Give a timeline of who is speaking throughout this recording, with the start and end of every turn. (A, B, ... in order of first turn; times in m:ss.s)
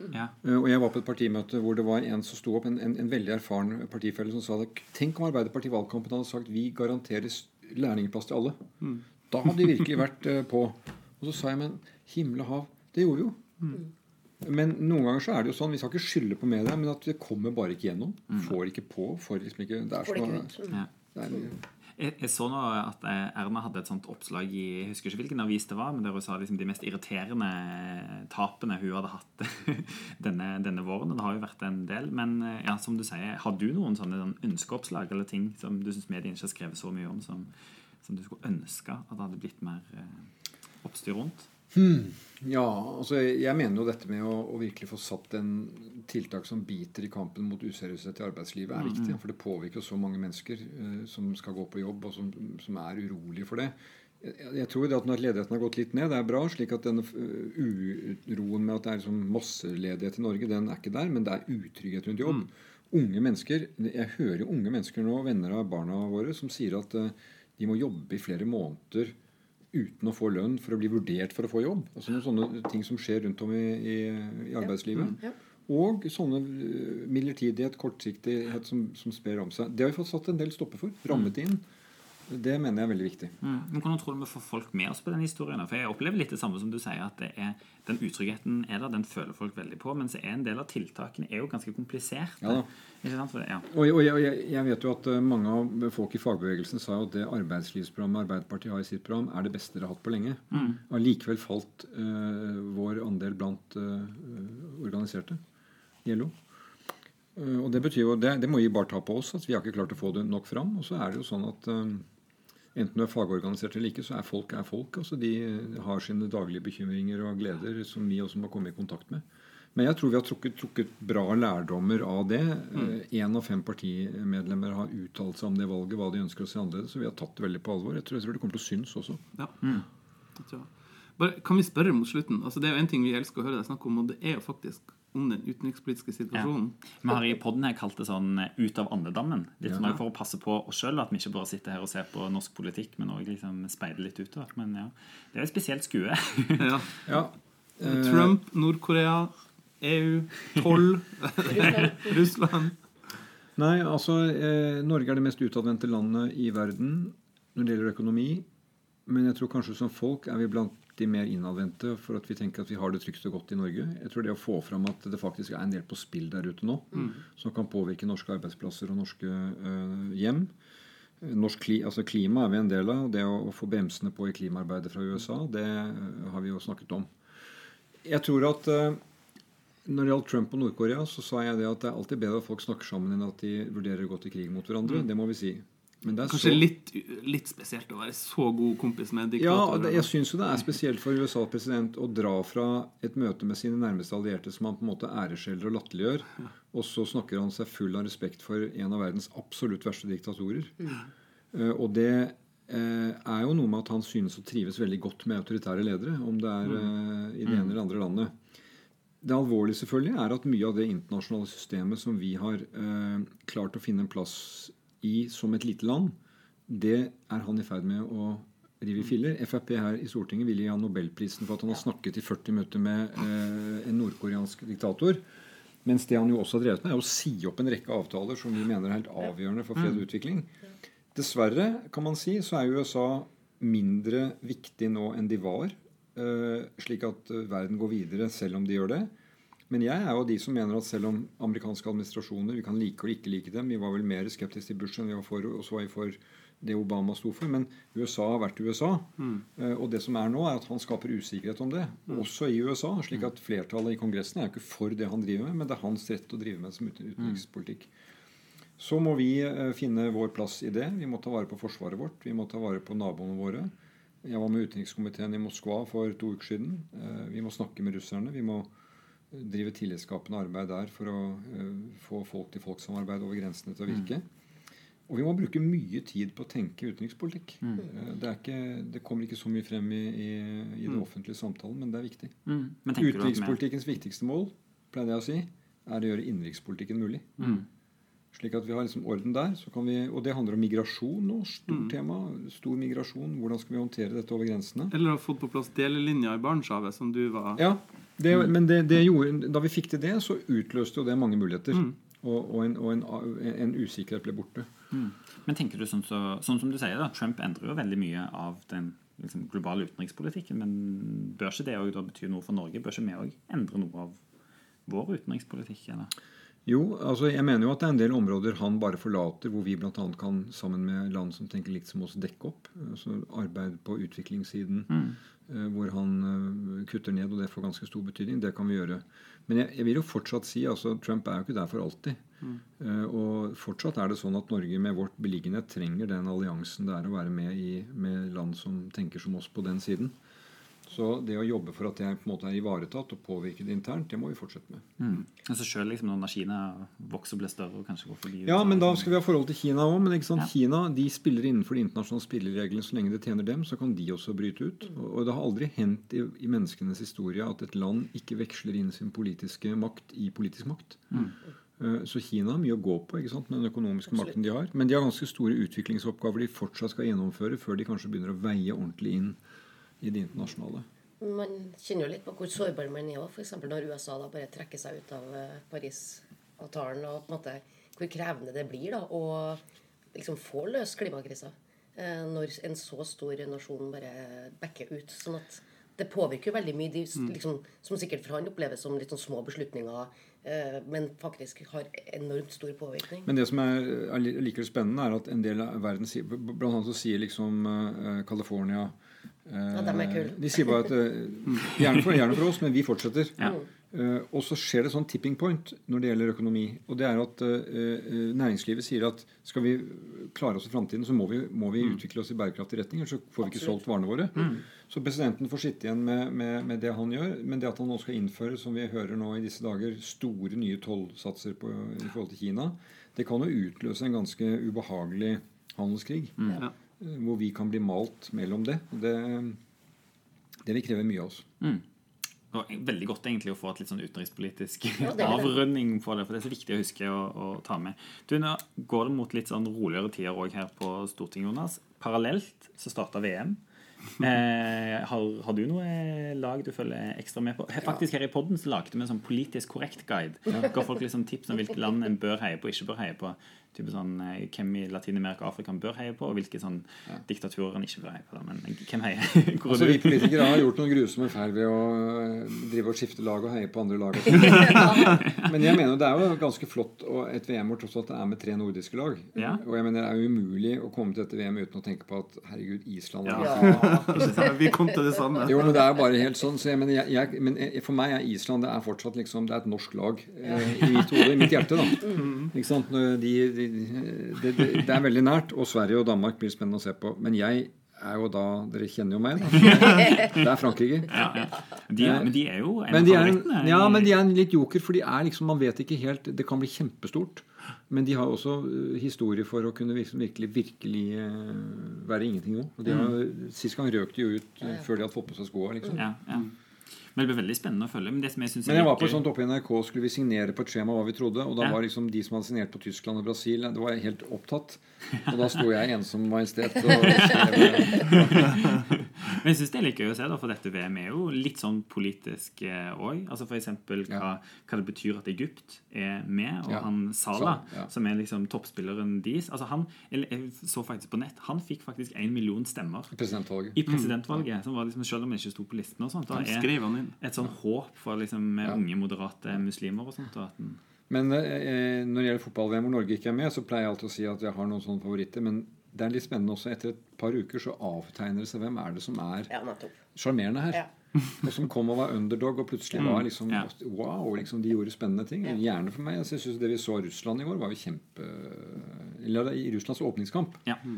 0:00.4-0:08.6 A
0:09.3-0:13.8 A
0:14.4-0:20.6 A
0:20.0-0:20.8 B
0:21.1-0:21.6 A
0:22.0-0:37.5 C
0:38.0-0:40.3 C
0:40.8-0:41.5 C
0:41.7-1:09.1 A
1:09.7-1:21.6 A
1:22.3-1:23.4 A
1:23.4-1:33.7 C
1:32.4-1:32.7 A
1:33.7-1:45.4 A
1:40.5-1:40.8 C
1:46.0-1:46.3 A
1:47.4-1:52.1 A
1:52.7-2:09.2 A
2:10.4-2:16.8 D
2:16.3-2:26.8 C
2:26.6-2:27.1 D
2:27.1-2:28.4 A
2:27.8-2:32.8 D
2:31.5-2:32.2 B
2:33.6-2:38.4 A
2:39.0-2:50.5 A
2:51.2-2:57.1 A
2:58.0-2:59.0 A
2:59.8-3:06.6 A
3:06.3-3:10.1 D
3:09.4-3:21.0 A
3:21.5-3:28.3 A
3:27.5-3:27.7 C
3:29.2-3:36.2 A
3:36.7-3:45.2 A
3:45.8-3:50.5 A
3:51.1-3:59.1 A
3:59.7-4:17.9 A
4:18.8-4:23.7 A
4:24.2-4:28.7 A
4:29.3-4:34.2 A
4:35.1-4:42.4 A
4:42.4-4:43.6 C
4:42.9-4:47.6 A
4:47.4-4:47.6 D
4:48.3-4:54.9 A
4:54.9-4:57.6 D
4:57.6-5:04.7 A
5:04.9-5:14.2 C
5:14.9-5:16.1 C
5:16.6-5:32.2 A
5:24.9-5:25.2 C
5:32.8-5:40.1 A
5:40.9-5:44.8 A
5:45.0-5:49.1 C
5:48.4-6:09.4 A
6:10.0-6:10.9 A
6:11.2-6:19.6 B
6:20.1-6:33.3 B
6:33.2-6:38.9 A
6:39.4-7:06.4 A
6:39.7-6:40.6 B
7:07.0-7:09.6 A
7:10.6-7:11.5 A
7:12.5-7:23.6 C
7:15.0-7:15.6 B
7:24.2-7:40.6 C
7:39.6-7:54.1 A
7:44.7-7:45.1 B
7:53.3-7:55.9 D
7:53.4-7:54.5 B
7:54.1-7:54.5 C
7:55.4-8:11.4 A
8:02.2-8:02.5 D
8:09.6-8:10.4 C
8:11.1-8:14.2 C
8:12.0-8:26.1 A
8:25.9-8:26.5 C
8:27.1-8:29.2 C
8:28.6-8:38.7 A
8:37.9-8:53.1 C
8:46.7-8:47.9 A
8:53.1-8:53.8 A
8:53.7-9:00.8 C
8:56.3-8:57.1 D
9:01.1-9:09.5 A
9:09.5-9:10.0 B
9:10.1-9:20.6 A